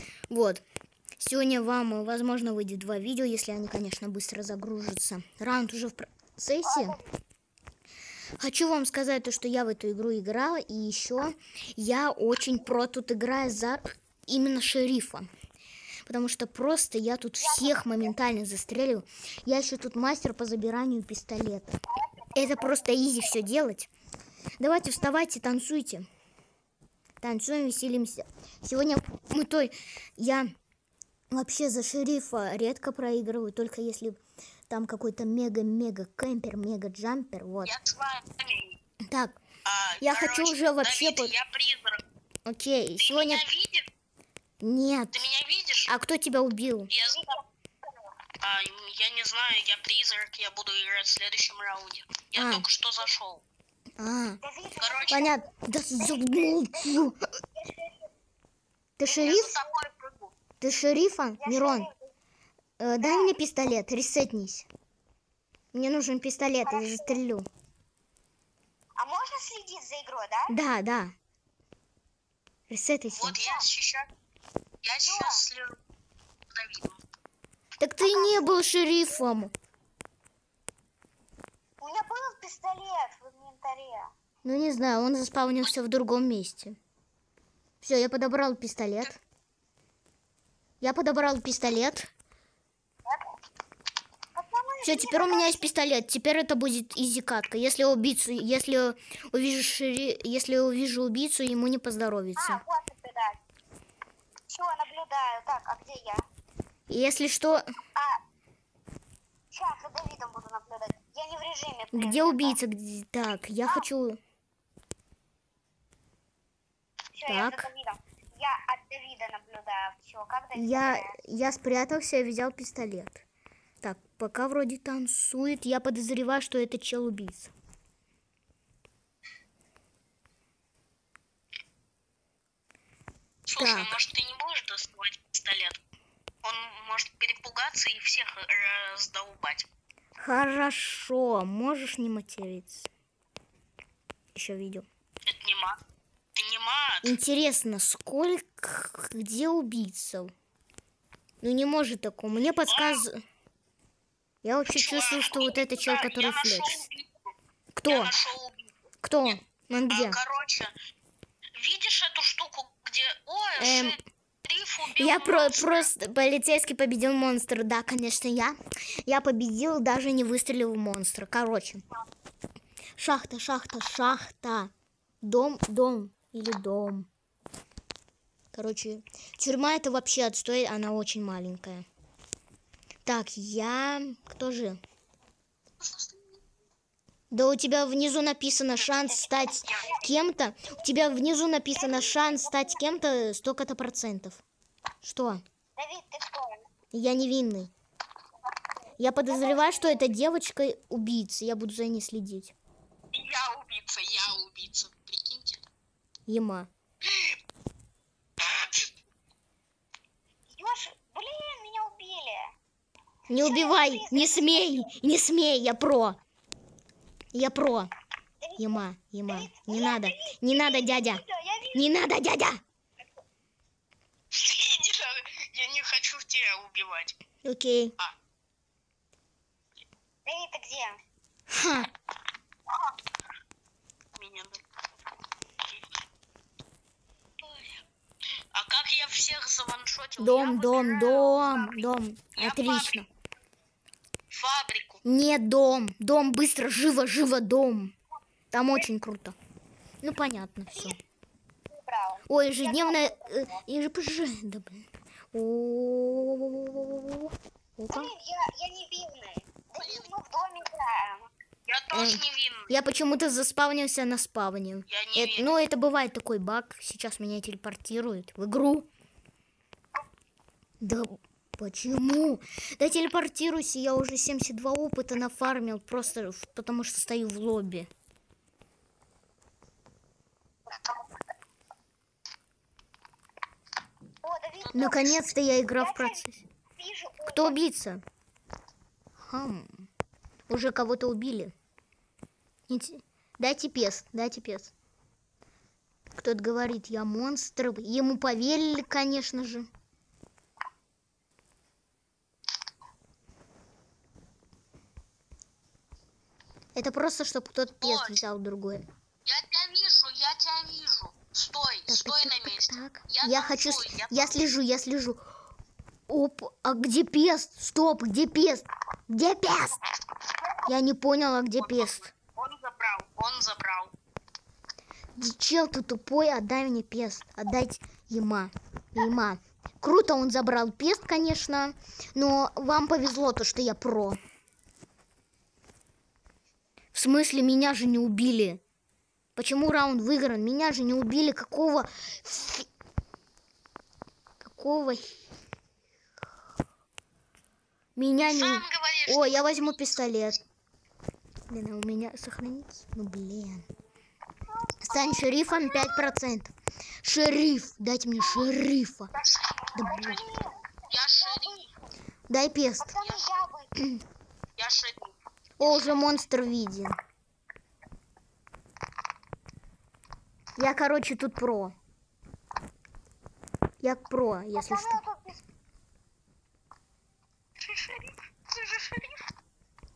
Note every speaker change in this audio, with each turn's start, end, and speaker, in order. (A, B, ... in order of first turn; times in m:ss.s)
0:00.3-0:00.6 A
0:01.2-0:07.0 A
0:06.7-0:07.0 B
0:08.4-0:15.3 A
0:16.1-0:21.8 A
0:17.4-0:18.1 B
0:21.9-0:22.8 B
0:22.4-0:23.9 A
0:24.6-0:26.1 A
0:27.2-0:30.5 A
0:31.3-0:37.8 A
0:37.6-0:38.8 C
0:39.1-0:39.4 A
0:39.6-0:42.0 C
0:40.0-0:41.3 A
0:42.5-0:43.4 A
0:43.0-0:43.9 C
0:44.6-0:45.2 A
0:45.1-0:45.9 C
0:45.9-0:46.9 A
0:46.9-0:47.4 C
0:48.4-0:53.4 C
0:52.4-0:52.6 A
0:54.0-0:54.4 A
0:54.4-0:58.1 B
0:54.8-0:55.4 C
0:55.1-0:57.2 A
0:59.0-0:59.6 A
0:59.0-1:00.3 C
1:00.6-1:01.9 A
1:01.4-1:02.0 B
1:02.8-1:04.7 A
1:03.0-1:03.4 B
1:05.7-1:07.5 A
1:06.6-1:07.2 B
1:09.0-1:10.6 B
1:10.5-1:11.1 A
1:12.7-1:13.4 A
1:13.1-1:14.1 C
1:13.3-1:13.6 B
1:14.8-1:15.8 C
1:15.0-1:15.4 B
1:16.5-1:17.0 C
1:17.8-1:19.5 A
1:18.0-1:18.8 B
1:21.8-1:24.1 B
1:24.4-1:26.8 A
1:27.8-1:29.2 A
1:30.8-1:32.1 A
1:34.4-1:35.8 B
1:34.8-1:42.6 A
1:42.4-1:43.4 B
1:44.5-1:46.2 B
1:46.9-1:47.7 A
1:48.0-1:48.2 B
1:49.5-1:52.6 B
1:51.9-1:54.2 A
1:57.1-2:01.2 B
1:57.3-1:57.7 A
2:00.6-2:03.2 A
2:03.8-2:07.5 A
2:13.5-2:15.8 C
2:13.6-2:14.0 A
2:16.4-2:19.7 C
2:20.2-2:22.9 A
2:24.3-2:24.9 A
2:25.3-2:25.8 C
2:26.4-2:27.2 C
2:27.0-2:30.3 A
2:31.4-2:33.2 A
2:32.7-2:33.1 C
2:34.4-2:36.8 A
2:34.7-2:37.1 C
2:37.7-2:38.1 A
2:37.9-2:38.7 C
2:39.0-2:40.2 A
2:39.9-2:40.7 C
2:41.6-2:45.9 C
2:43.6-2:44.0 A
2:45.0-2:51.8 A
2:53.0-2:54.7 A
2:55.2-2:57.1 A
2:58.5-3:01.9 A
3:03.0-3:04.8 A
3:05.8-3:06.4 C
3:07.3-3:14.4 A
3:09.0-3:09.9 B
3:09.6-3:10.1 C
3:11.8-3:12.8 B
3:15.0-3:15.4 A
3:15.8-3:16.7 B
3:16.9-3:17.7 A
3:19.0-3:22.6 A
3:19.3-3:20.0 B
3:23.1-3:25.6 C
3:26.3-3:26.7 A
3:27.0-3:27.4 C
3:28.4-3:28.9 C
3:30.5-3:32.5 B
3:33.3-3:36.2 A
3:33.3-3:34.9 B
3:37.3-3:37.9 A
3:38.4-3:41.9 B
3:38.6-3:41.2 A
3:41.7-3:42.6 A
3:44.3-3:47.2 C
3:47.4-3:48.0 A
3:50.3-3:51.0 B
3:51.5-3:51.9 A
3:54.2-3:54.6 C
3:58.5-4:03.1 C
4:00.2-4:03.1 A
4:04.3-4:05.0 C
4:05.0-4:07.9 A
4:08.5-4:09.4 A
4:10.0-4:11.0 A
4:10.7-4:11.0 B
4:11.7-4:13.6 B
4:12.3-4:18.1 A
4:17.9-4:21.3 B
4:19.8-4:20.1 C
4:21.7-4:22.8 C
4:21.9-4:28.9 A
4:24.9-4:25.5 C
4:30.8-4:37.9 A
4:44.2-4:45.2 B
4:44.6-4:45.0 C
4:44.7-4:46.5 A
4:45.8-4:46.2 B
4:46.8-4:47.6 B
4:47.3-4:48.0 A
4:49.2-4:49.9 A
4:50.5-4:51.5 A
4:52.7-4:54.7 A
4:56.2-4:59.7 A
5:06.8-5:08.9 A
5:07.8-5:08.2 C
5:09.2-5:14.5 C
5:11.9-5:15.2 A
5:16.1-5:19.8 A
5:20.6-5:22.1 A
5:21.6-5:23.9 C
5:25.2-5:34.2 A
5:36.9-5:38.6 A
5:39.4-5:42.7 A
5:44.4-5:45.2 A
5:48.0-5:50.4 A
5:48.2-5:49.9 C
5:51.5-5:53.7 A
5:54.5-5:56.1 B
5:54.8-5:59.1 A
5:58.2-5:58.5 B
5:59.1-6:01.7 C
5:59.8-6:00.2 A
5:59.8-6:00.6 B
6:01.2-6:01.7 B
6:02.3-6:03.0 A
6:02.8-6:03.7 B
6:02.9-6:03.5 C
6:04.6-6:05.2 C
6:05.6-6:07.0 A
6:10.6-6:11.8 A
6:13.8-6:15.0 A
6:14.6-6:15.4 B
6:17.6-6:19.2 C